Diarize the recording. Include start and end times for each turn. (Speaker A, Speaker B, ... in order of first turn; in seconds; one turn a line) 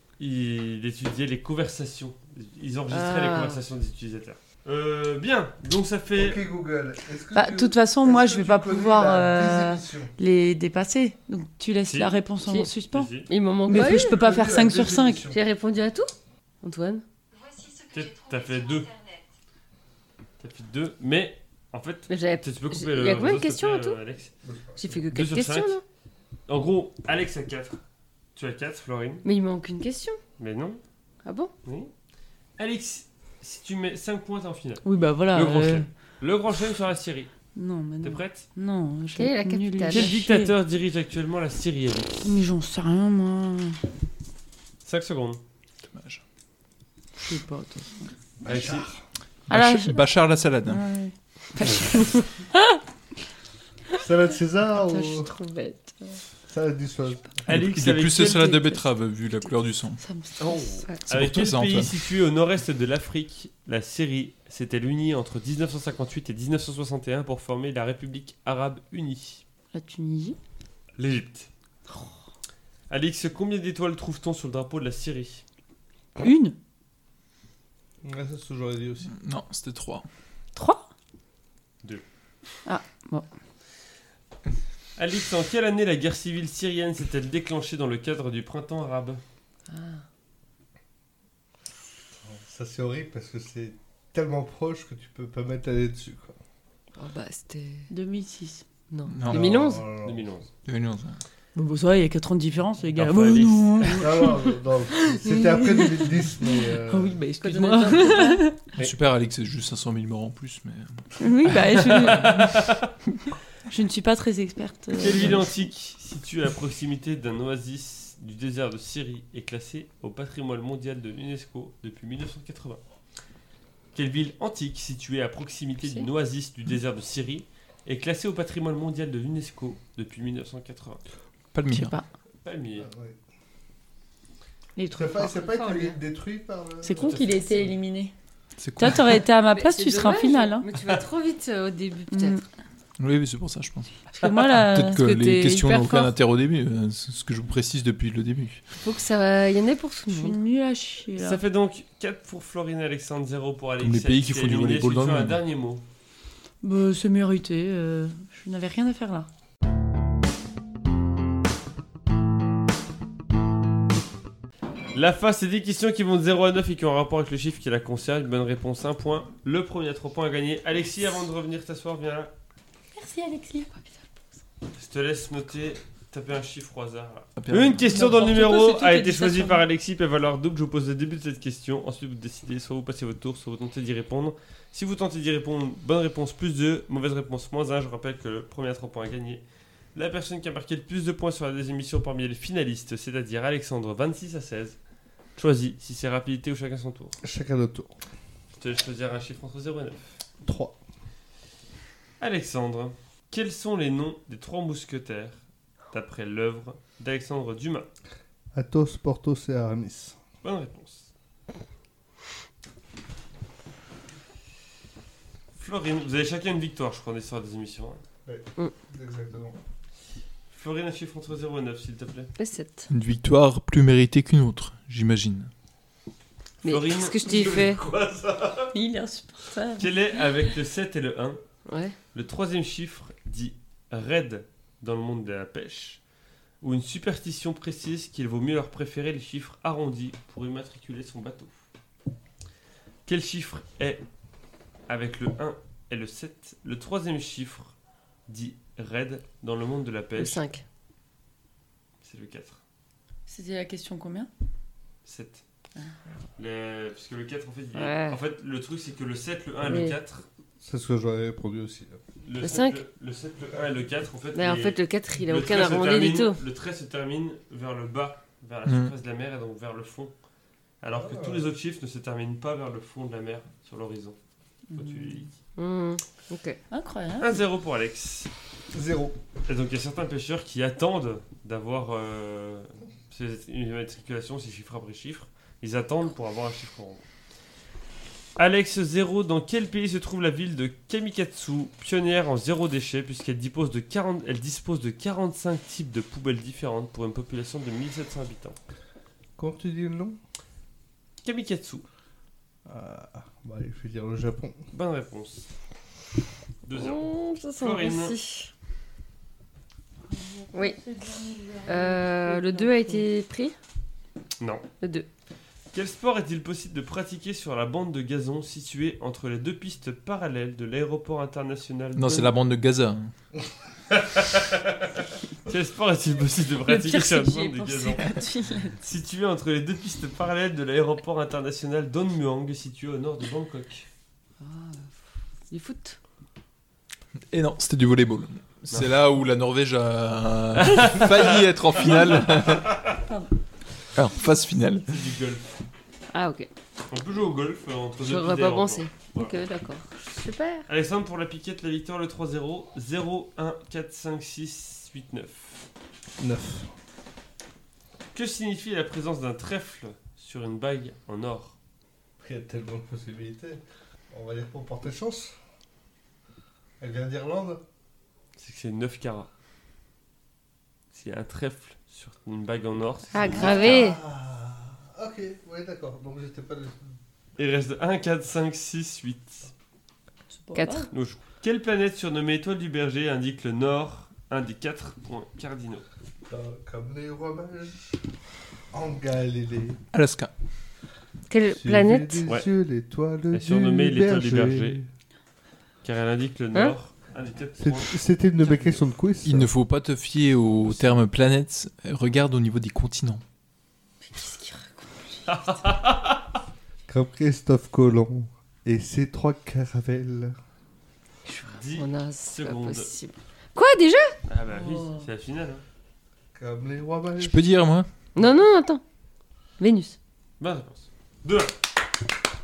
Speaker A: 0.2-6.4
Speaker B: 2.9-3.6
Speaker C: 6.1-10.1
Speaker D: 7.3-13.1
Speaker A: 11.9-12.2
Speaker A: 12.9-13.3
Speaker B: 13.3-14.3
Speaker D: 13.7-15.3
Speaker C: 13.7-15.4
Speaker B: 15.3-17.0
Speaker A: 17.8-19.0
Speaker A: 20.4-24.3
Speaker B: 22.1-24.0
Speaker C: 24.4-25.0
Speaker B: 24.8-25.8
Speaker A: 25.1-25.8
Speaker A: 26.5-27.8
Speaker A: 28.4-29.2
Speaker B: 29.2-30.2
Speaker A: 30.4-30.8
Speaker B: 31.2-31.5
Speaker A: 31.6-31.9
Speaker A: 32.6-37.3
Speaker D: 34.8-35.9
Speaker D: 37.5-40.5
Speaker A: 38.0-38.5
Speaker B: 39.1-40.1
Speaker A: 39.9-42.4
Speaker D: 42.2-43.8
Speaker A: 44.8-45.4
Speaker E: 45.9-46.2
Speaker D: 47.2-48.1
Speaker C: 48.4-49.0
Speaker A: 48.5-48.9
Speaker D: 49.5-50.1
Speaker E: 49.5-50.8
Speaker D: 50.6-52.2
Speaker C: 54.0-55.3
Speaker B: 54.8-56.2
Speaker C: 56.5-57.6
Speaker A: 57.5-58.6
Speaker E: 57.5-60.0
Speaker D: 58.2-58.8
Speaker D: 60.0-60.9
Speaker A: 60.4-69.4
Speaker E: 61.1-61.9
Speaker D: 69.7-70.4
Speaker A: 71.0-71.5
Speaker A: 72.9-75.4
Speaker D: 76.2-76.5
Speaker C: 78.0-79.1
Speaker E: 79.1-80.1
Speaker D: 80.5-80.8
Speaker D: 82.7-83.3
Speaker A: 85.0-89.2
Speaker B: 89.7-90.0
Speaker C: 92.2-96.4
Speaker B: 97.0-97.9
Speaker D: 97.9-98.6
Speaker B: 98.9-99.8
Speaker E: 99.1-99.5
Speaker C: 99.2-100.3
Speaker A: 100.0-100.5
Speaker E: 100.7-101.2
Speaker D: 101.5-104.5
Speaker A: 102.9-104.1
Speaker C: 104.0-107.2
Speaker D: 105.0-108.7
Speaker B: 107.4-108.5
Speaker E: 108.8-111.6
Speaker D: 111.2-112.6
Speaker A: 111.6-112.9
Speaker D: 113.7-115.5
Speaker A: 115.0-122.8
Speaker A: 124.0-131.0
Speaker B: 125.8-126.1
Speaker E: 131.5-131.9
Speaker D: 131.7-132.1
Speaker A: 132.4-132.9
Speaker C: 132.8-133.2
Speaker D: 134.8-135.5
Speaker C: 134.9-137.4
Speaker B: 135.3-136.0
Speaker D: 136.8-138.1
Speaker A: 137.0-137.7
Speaker E: 138.6-139.2
Speaker D: 138.8-140.7
Speaker B: 139.5-142.4
Speaker D: 142.1-142.4
Speaker E: 143.0-143.9
Speaker D: 144.1-145.9
Speaker E: 144.5-148.6
Speaker B: 145.5-146.1
Speaker B: 148.8-150.4
Speaker D: 150.1-151.4
Speaker A: 151.2-155.8
Speaker E: 153.8-155.4
Speaker D: 156.6-159.3
Speaker A: 164.9-172.3
Speaker D: 172.9-173.7
Speaker B: 173.7-174.2
Speaker A: 174.8-189.4
Speaker E: 177.4-178.1
Speaker D: 177.8-179.6
Speaker A: 189.9-194.8
Speaker A: 195.4-197.2
Speaker C: 197.2-197.9
Speaker A: 198.6-200.2
Speaker C: 200.4-200.8
Speaker A: 202.2-207.9
Speaker C: 208.5-210.2
Speaker A: 210.4-211.1
Speaker A: 215.6-218.0
Speaker C: 218.3-219.6
Speaker A: 220.5-222.3
Speaker B: 222.4-222.9
Speaker E: 222.9-225.5
Speaker B: 226.6-227.8
Speaker A: 226.6-228.7
Speaker D: 228.7-229.9
Speaker A: 229.8-231.4
Speaker B: 231.7-231.9
Speaker A: 232.1-236.0
Speaker A: 236.6-241.6
Speaker A: 243.1-244.0
Speaker A: 244.9-247.8
Speaker A: 248.3-250.4
Speaker B: 250.2-250.6
Speaker A: 252.0-252.6
Speaker D: 253.3-254.3
Speaker A: 255.1-255.4
Speaker A: 256.4-260.2
Speaker B: 257.8-258.2
Speaker B: 259.6-259.9
Speaker C: 260.6-262.0
Speaker A: 262.2-270.1
Speaker B: 262.4-262.8
Speaker B: 264.4-266.4
Speaker E: 268.7-268.9
Speaker A: 270.8-274.2
Speaker C: 271.0-271.5
Speaker D: 274.7-275.2
Speaker A: 274.7-275.3
Speaker B: 275.6-276.6
Speaker D: 276.7-277.4
Speaker A: 277.2-278.3
Speaker C: 278.7-279.2
Speaker A: 279.5-287.0
Speaker A: 288.4-298.6
Speaker C: 299.4-300.2
Speaker A: 301.2-301.9
Speaker C: 302.7-304.6
Speaker A: 304.7-305.5
Speaker A: 306.6-308.2
Speaker B: 306.8-308.5
Speaker D: 310.1-313.1
Speaker B: 310.5-310.8
Speaker B: 311.7-313.6
Speaker B: 314.8-315.1
Speaker A: 315.7-322.3
Speaker E: 321.9-323.1
Speaker A: 323.9-333.9
Speaker D: 326.6-328.8
Speaker B: 334.4-335.0
Speaker B: 335.5-336.0
Speaker E: 337.3-342.9
Speaker A: 338.7-338.9
Speaker A: 340.6-342.9
Speaker D: 342.9-343.3
Speaker E: 343.9-344.9
Speaker A: 344.9-345.5
Speaker B: 346.1-346.5
Speaker A: 346.9-349.4
Speaker B: 348.0-350.7
Speaker A: 350.7-355.6
Speaker C: 356.2-356.7
Speaker A: 358.1-361.6
Speaker C: 362.2-365.4
Speaker C: 366.8-367.6
Speaker A: 368.4-369.3
Speaker A: 370.9-373.8
Speaker B: 373.1-374.0
Speaker C: 373.2-376.9
Speaker A: 377.4-379.5
Speaker D: 380.3-380.9
Speaker B: 380.6-380.9
Speaker A: 380.9-385.9
Speaker C: 386.3-387.9
Speaker C: 388.7-389.8
Speaker E: 389.9-390.3
Speaker B: 391.3-392.3
Speaker C: 391.6-394.9
Speaker A: 393.3-394.8
Speaker A: 395.8-398.0
Speaker C: 397.6-399.5
Speaker E: 399.2-403.2
Speaker D: 404.1-405.6
Speaker A: 405.3-406.4
Speaker C: 406.9-410.4
Speaker B: 411.3-414.2
Speaker A: 411.4-412.9
Speaker A: 414.3-415.6
Speaker D: 414.5-415.1
Speaker C: 416.4-417.4
Speaker E: 417.2-417.9
Speaker B: 418.1-418.8
Speaker B: 419.6-420.0
Speaker A: 420.4-421.6